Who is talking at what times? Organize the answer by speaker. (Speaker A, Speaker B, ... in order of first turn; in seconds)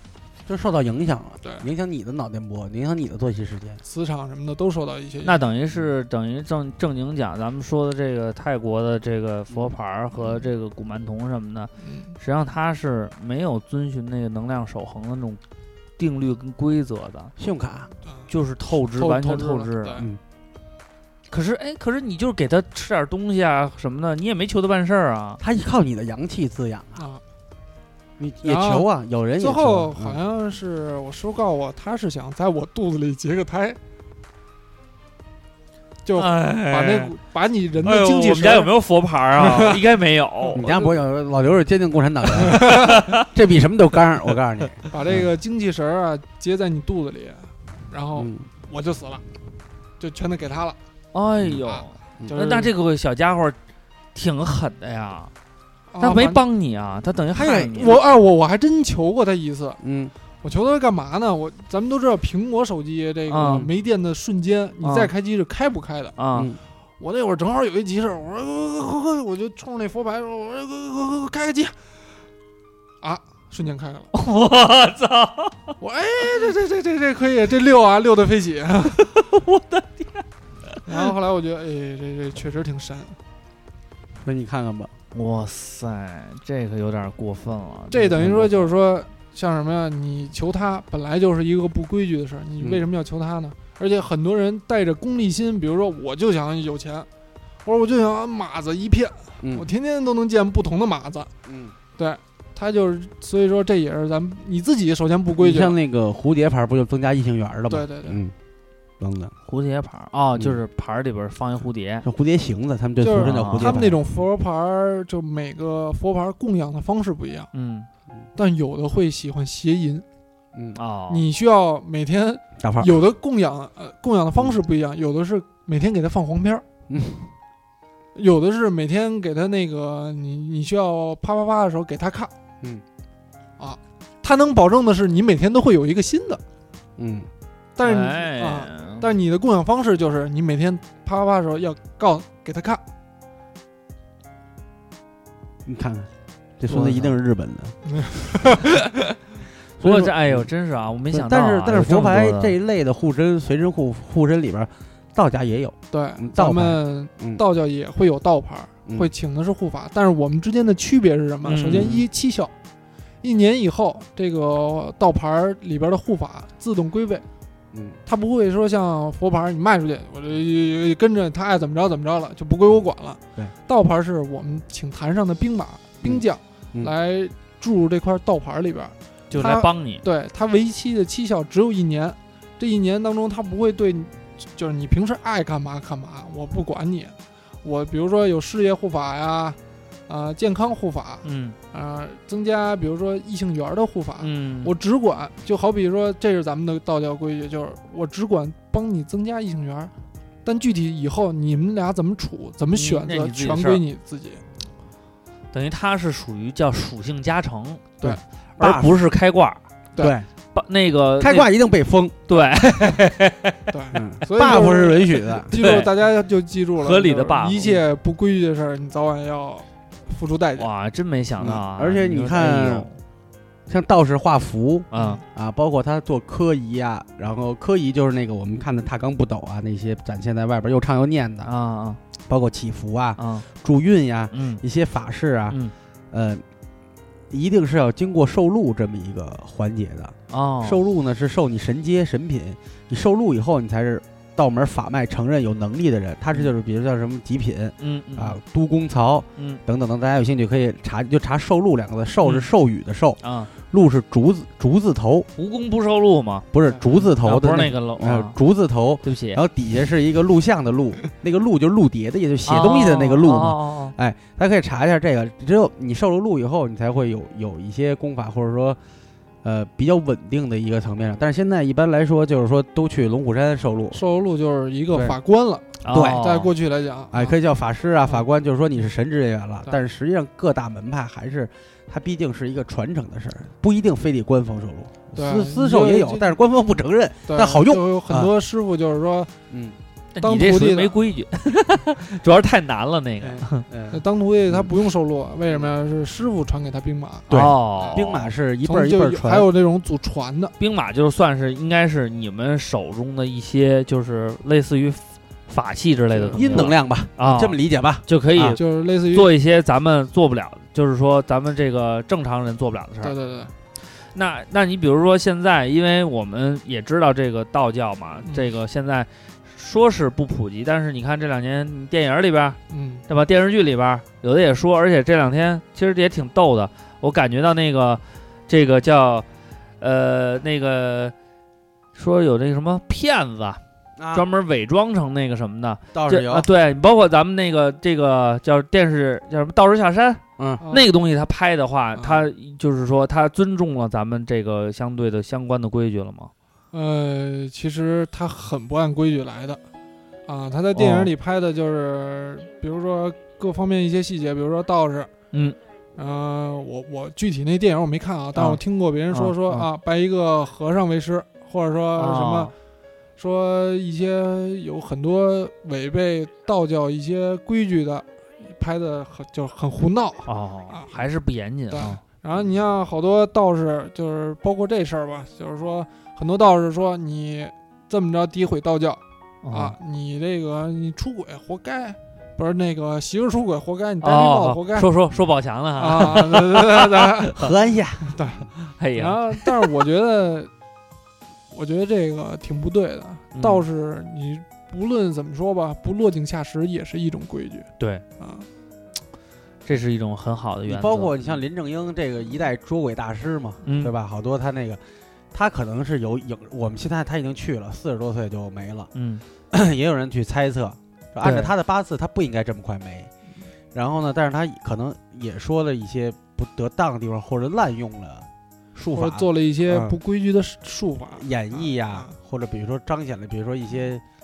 Speaker A: 0.5-3.8, 17.4-17.9, 25.4-27.0, 28.2-30.2, 40.6-45.3, 48.2-48.5, 59.8-60.1, 66.3-66.6, 84.2-84.9, 92.6-92.9, 99.4-99.7, 101.5-101.8, 105.4-108.3, 109.0-109.3, 112.0-114.0, 122.6-123.0, 126.9-127.3, 137.0-137.3, 145.7-147.8, 149.8-150.5, 151.1-157.4, 158.9-159.1, 161.7-162.1, 167.7-168.0, 176.0-176.9, 208.0-208.9, 210.0-210.3, 211.2-215.8, 221.4-222.9, 223.7-231.5, 232.3-235.6, 236.1-236.4, 237.3-255.3, 256.5-268.8, 269.4-274.0, 275.9-276.2, 277.1-288.3, 289.5-289.8, 293.7-294.7, 297.3-299.5, 306.4-308.6, 334.0-334.2, 335.9-336.5, 387.3-388.3, 400.7-404.8, 405.3-408.9, 409.5-413.1, 413.7-420.0, 421.1-424.0
Speaker B: 3.9-5.4, 11.8-12.2, 18.8-20.1, 28.4-28.9, 29.4-33.8, 36.0-38.7, 39.4-39.8, 40.6-40.9, 42.5-43.0, 44.9-49.2, 50.0-50.8, 51.7-52.7, 55.9-56.4, 57.4-59.8, 60.4-66.2, 67.0-71.8, 73.0-74.1, 75.8-79.1, 80.9-83.2, 87.9-97.1, 97.7-101.3, 102.0-105.8, 107.7-108.2, 113.0-117.5, 118.4-120.0, 121.1-126.7, 128.2-132.3, 133.6-136.4, 137.8-142.8, 146.7-147.1, 147.9-148.8, 155.9-162.5, 163.2-167.2, 168.1-189.6, 190.1-199.9, 200.4-204.4, 213.7-220.7, 225.0-225.2, 273.9-277.4, 285.1-286.4, 287.3-289.3, 290.2-290.9, 293.9-298.0, 298.6-300.6, 306.1-306.7, 308.6-309.3, 313.0-313.5, 318.2-318.5, 322.7-323.0, 340.6-340.9, 342.0-342.3, 346.7-349.6, 350.3-355.1, 356.0-362.5, 363.2-371.1, 371.7-379.0, 379.5-384.9, 385.8-387.4, 388.1-390.5, 391.5-398.5, 418.9-422.2
Speaker C: 5.2-15.4, 16.0-17.3, 18.3-20.0, 21.3-25.4, 36.2-37.1, 37.8-40.7, 42.5-43.2, 44.8-45.2, 51.1-53.6, 54.1-55.3, 56.0-58.0, 63.3-63.7, 64.8-65.1, 66.2-66.5, 74.1-75.7, 79.0-81.1, 85.1-88.7, 109.5-112.0, 113.1-113.9, 117.5-117.9, 120.8-121.3, 137.8-139.1, 149.8-152.6, 161.4-162.0, 179.3-180.0, 191.2-191.6, 194.2-194.7, 202.7-203.8, 205.5-209.6, 210.5-211.5, 212.3-213.0, 215.5-215.9, 216.8-217.8, 220.6-223.0, 224.9-225.2, 231.4-232.0, 233.2-233.5, 234.3-234.6, 240.3-240.8, 247.8-248.4, 253.2-253.5, 255.4-258.4, 259.0-259.4, 262.5-263.9, 275.8-276.5, 290.1-293.7, 297.3-298.3, 300.6-313.1, 314.0-329.3, 329.8-331.1, 331.9-333.6, 334.1-346.3, 350.8-351.1, 355.3-355.6, 358.4-358.6, 359.1-359.7, 362.0-362.5, 370.3-372.0, 379.4-379.8, 384.0-387.5, 388.7-389.7, 393.3-393.6, 397.8-398.0, 399.6-401.1, 403.7-403.9, 408.9-409.2, 411.2-411.5